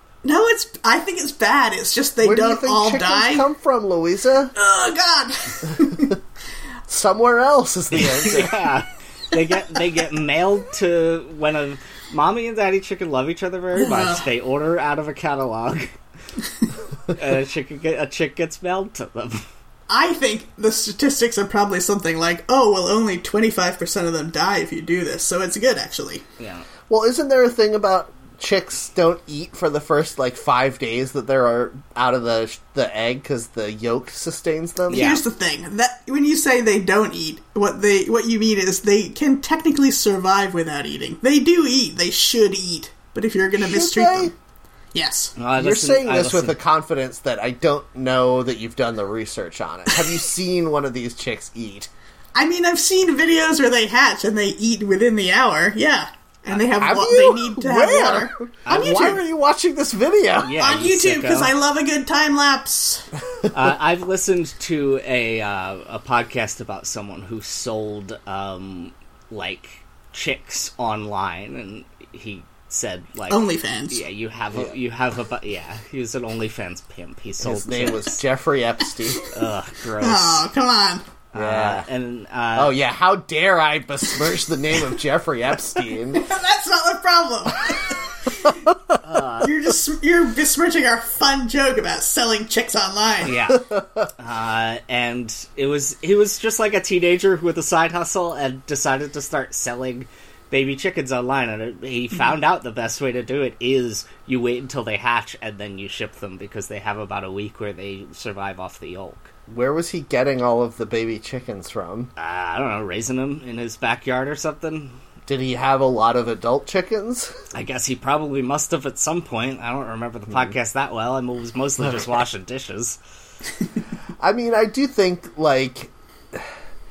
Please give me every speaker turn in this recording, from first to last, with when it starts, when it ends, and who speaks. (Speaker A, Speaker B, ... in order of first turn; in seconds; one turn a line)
Speaker A: 0.2-3.5
Speaker B: 2.2-4.5
Speaker A: 4.5-6.2
Speaker B: 6.9-8.6
Speaker C: 7.9-15.9
Speaker A: 13.7-14.2
Speaker C: 17.1-19.4
Speaker A: 19.9-26.2
Speaker C: 26.4-26.6
Speaker B: 26.9-35.1
Speaker C: 34.9-35.2
Speaker A: 34.9-44.3
Speaker B: 43.6-44.3
Speaker A: 44.9-45.3
Speaker C: 45.4-46.5
Speaker B: 45.5-51.9
Speaker A: 52.3-59.2
Speaker B: 56.8-60.5
Speaker C: 58.6-58.9
Speaker C: 60.4-61.5
Speaker A: 60.6-63.1
Speaker C: 63.5-78.2
Speaker A: 73.3-74.0
Speaker B: 77.4-79.2
Speaker C: 79.3-80.5
Speaker A: 80.0-81.0
Speaker C: 81.3-82.7
Speaker B: 81.3-81.8
Speaker B: 82.5-86.2
Speaker A: 86.1-88.4
Speaker C: 89.0-89.5
Speaker A: 89.4-93.3
Speaker C: 93.2-109.3
Speaker B: 93.5-94.1
Speaker B: 109.5-112.1
Speaker C: 112.2-115.0
Speaker B: 115.3-117.3
Speaker C: 117.5-123.0
Speaker B: 124.2-126.5